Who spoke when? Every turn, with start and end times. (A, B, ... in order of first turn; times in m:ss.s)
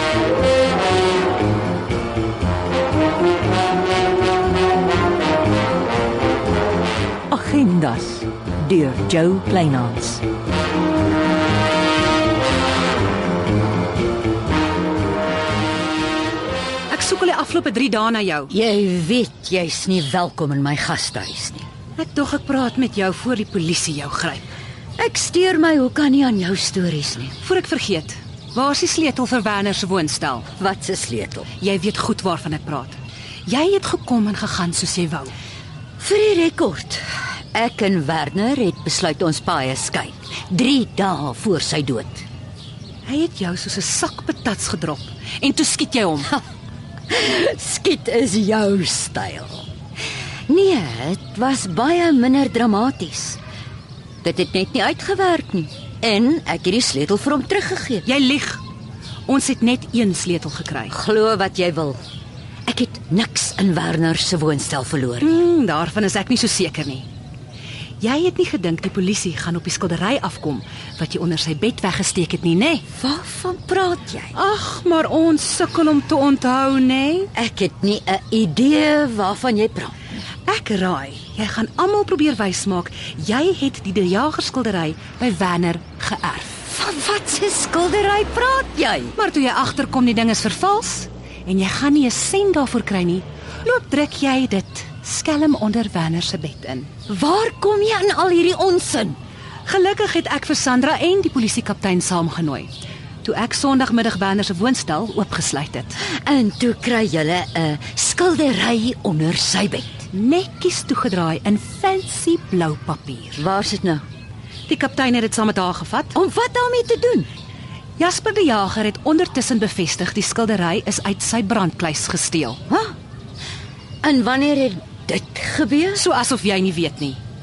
0:07.3-0:10.2 A
0:16.9-0:18.5 B
0:18.5-0:21.7 C
0:22.0-0:24.5 B
0:25.0-0:27.4 C
0:27.4-0:30.5 B
0:30.5-0:31.5 C
0:31.6-0:35.3 B
0:36.0-0:42.2 C
0:43.0-0:46.3 B
0:47.1-0:49.6 C
0:50.5-0:53.4 C
0:54.2-0:58.0 C
0:58.0-0:58.6 B
0:59.3-1:01.0 B
1:00.9-1:02.0 C
1:02.7-1:05.4 C
1:05.2-1:07.1 B
1:08.0-1:12.8 B
1:12.9-1:14.3 C
1:14.3-1:17.3 B
1:17.3-1:20.0 C
1:20.4-1:26.6 B
1:26.7-1:29.2 C
1:29.2-1:36.9 B
1:37.1-1:39.2 C
1:39.6-1:42.7 B
1:43.2-1:46.0 B
1:46.0-1:50.1 C
1:50.1-1:53.4 B
1:53.3-1:54.0 C
1:54.7-1:56.1 B
1:56.1-1:57.3 C
1:58.0-2:02.6 B
2:02.7-2:02.9 C
2:04.0-2:06.0 C
2:05.9-2:07.2 B